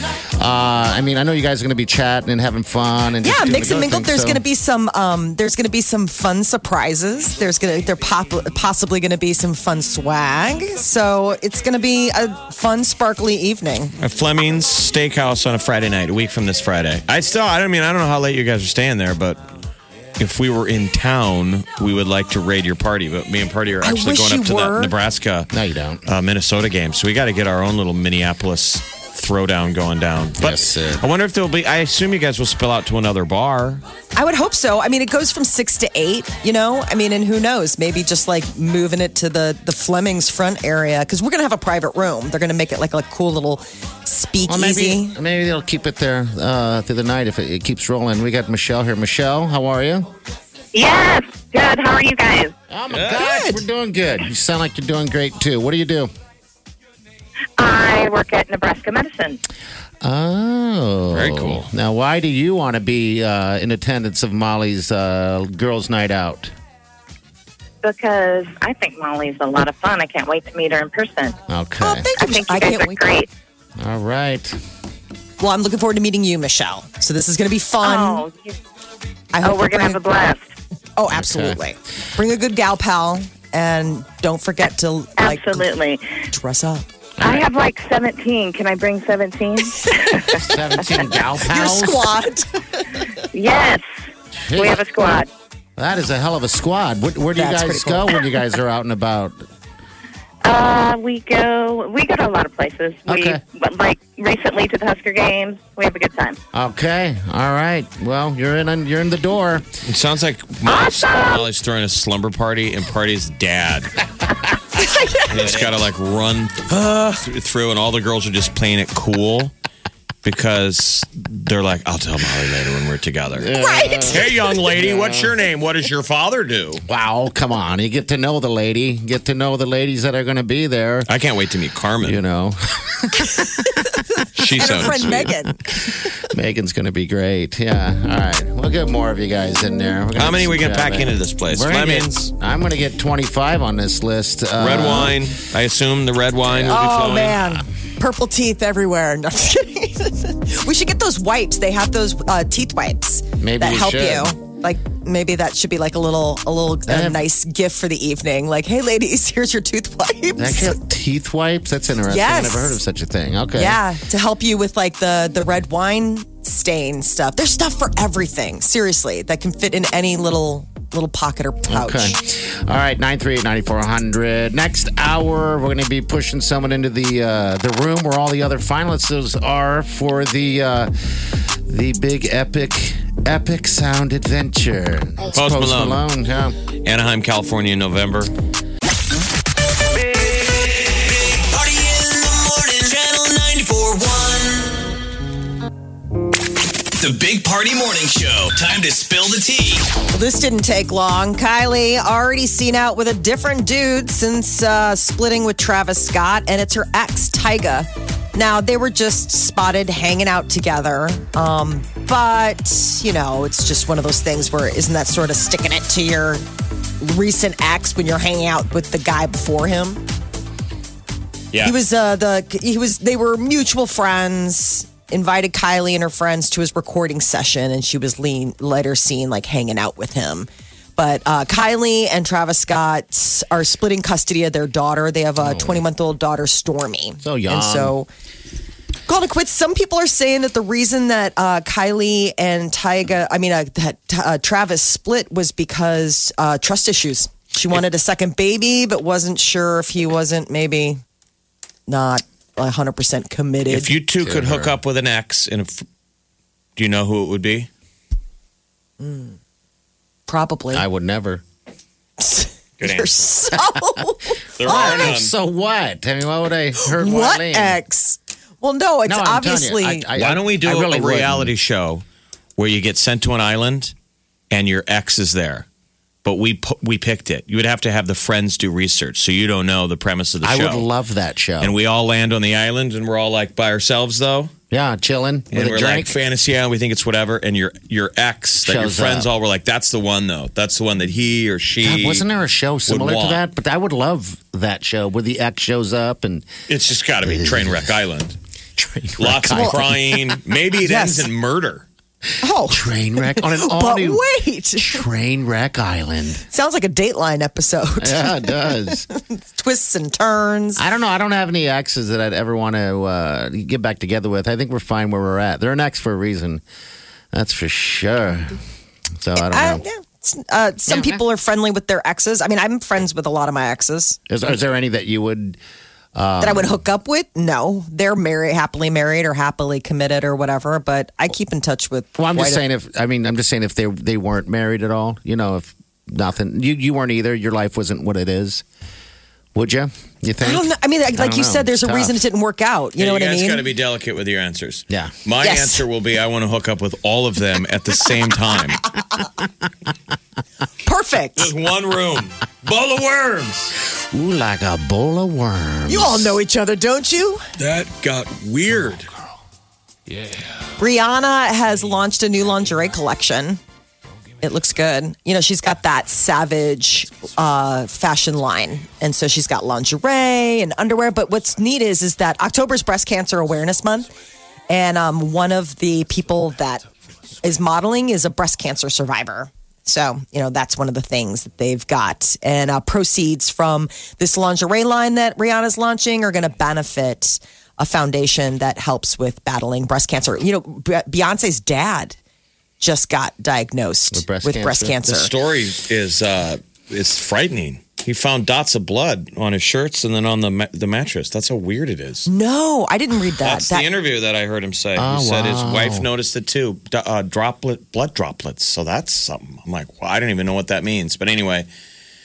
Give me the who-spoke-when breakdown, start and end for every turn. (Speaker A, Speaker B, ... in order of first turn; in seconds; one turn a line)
Speaker A: 0.4-4.4
Speaker B: 3.2-13.9
Speaker C: 14.0-19.4
Speaker C: 20.2-25.5
Speaker B: 23.8-24.9
Speaker A: 25.5-26.0
Speaker C: 26.1-33.8
Speaker A: 30.4-31.1
Speaker B: 34.1-45.1
Speaker A: 44.5-50.1
Speaker D: 50.7-52.5
Speaker A: 52.7-56.1
Speaker C: 52.9-53.2
Speaker B: 53.2-53.6
Speaker D: 57.6-59.4
Speaker A: 60.0-66.5
Speaker C: 61.1-61.7
Speaker D: 67.8-71.4
Speaker A: 71.5-72.1
Speaker B: 71.8-73.2
Speaker D: 72.2-73.3
Speaker A: 73.8-74.5
Speaker B: 75.4-78.2
Speaker D: 77.8-78.5
Speaker B: 79.3-80.0
Speaker D: 79.4-80.5
Speaker B: 81.0-85.7
Speaker A: 81.1-81.6
Speaker D: 85.2-86.0
Speaker B: 86.3-86.9
Speaker A: 87.2-87.5
Speaker D: 87.2-90.4
Speaker A: 90.3-92.1
Speaker B: 91.4-93.0
Speaker D: 93.3-93.9
Speaker A: 94.4-94.8
Speaker D: 94.5-95.3
Speaker A: 95.8-99.4
Speaker B: 97.3-98.2
Speaker D: 100.4-106.4
Speaker A: 103.1-103.4
Speaker A: 106.5-109.7
Speaker C: 109.8-114.0
Speaker D: 110.7-111.4
Speaker B: 114.8-115.5
Speaker C: 115.3-119.5
Speaker C: 120.2-123.5
Speaker A: 123.3-125.3
Speaker B: 123.6-124.4
Speaker C: 124.1-126.8
Speaker A: 126.8-131.1
Speaker C: 131.1-132.2
Speaker A: 132.0-133.7
Speaker C: 134.3-135.3
Speaker B: 134.5-135.8
Speaker A: 134.6-145.2
Speaker C: 140.2-142.3
Speaker C: 144.6-147.6
Speaker A: 146.5-146.8
Speaker B: 146.6-160.8
Speaker A: 153.4-154.3
Speaker A: 156.9-157.2
Speaker A: 160.3-163.8
Speaker B: 162.1-162.8
Speaker B: 163.5-172.2
Speaker A: 171.7-180.9
Speaker A: 181.7-186.6
Speaker C: 185.3-186.1
Speaker C: 186.8-188.3
Speaker E: 191.4-194.7
Speaker E: 197.0-199.8
Speaker B: 200.1-216.4
Speaker B: 217.0-220.0
Speaker C: 221.5-221.8
Speaker B: 221.6-238.1
Speaker A: 235.4-235.8
Speaker A: 237.2-237.9
Speaker B: 239.1-251.0
Speaker B: 251.9-254.0
Speaker C: 253.7-255.8
Speaker A: 254.2-254.8
Speaker C: 256.8-257.7
Speaker B: 259.0-259.4
Speaker B: 260.3-260.8
Speaker A: 260.7-261.4
Speaker B: 262.2-265.1
Speaker C: 262.8-263.3
Speaker C: 264.6-265.3
Speaker A: 264.6-267.8
Speaker B: 266.8-270.1
Speaker A: 269.1-271.5
Speaker C: 270.1-272.0
Speaker C: 272.6-273.9
Speaker C: 274.5-275.6
Speaker C: 276.2-280.9
Speaker A: 280.4-281.7
Speaker C: 281.6-284.5
Speaker A: 284.7-286.2
Speaker C: 285.5-292.2
Speaker A: 288.6-289.3
Speaker A: 291.8-296.5
Speaker C: 292.9-293.4
Speaker C: 296.7-298.4
Speaker A: 297.2-297.9
Speaker A: 298.8-300.2
Speaker C: 299.2-301.9
Speaker B: 299.5-299.8
Speaker B: 300.8-301.3
Speaker B: 302.4-305.0
Speaker A: 302.7-304.2
Speaker A: 304.8-306.4
Speaker B: 306.5-310.8
Speaker A: 308.0-309.0
Speaker A: 310.8-316.6
Speaker A: 317.3-318.6
Speaker A: 319.2-319.8
Speaker B: 319.4-324.2
Speaker A: 320.9-321.2
Speaker A: 324.3-325.6
Speaker A: 326.1-326.8
Speaker B: 326.4-332.6
Speaker A: 332.1-338.6
Speaker A: 339.5-342.2
Speaker B: 340.4-343.7
Speaker C: 342.9-348.9
Speaker B: 345.4-345.8
Speaker B: 350.8-351.5
Speaker C: 351.3-353.7
Speaker A: 353.9-356.4
Speaker B: 355.9-357.4
Speaker C: 357.6-359.1
Speaker B: 360.8-363.6
Speaker B: 364.4-374.1
Speaker B: 374.7-376.9
Speaker B: 377.4-392.2
Speaker B: 392.8-395.3
Speaker A: 394.1-395.0
Speaker C: 395.0-402.3
Speaker B: 402.3-403.9
Speaker C: 403.4-411.7
Speaker A: 404.9-406.1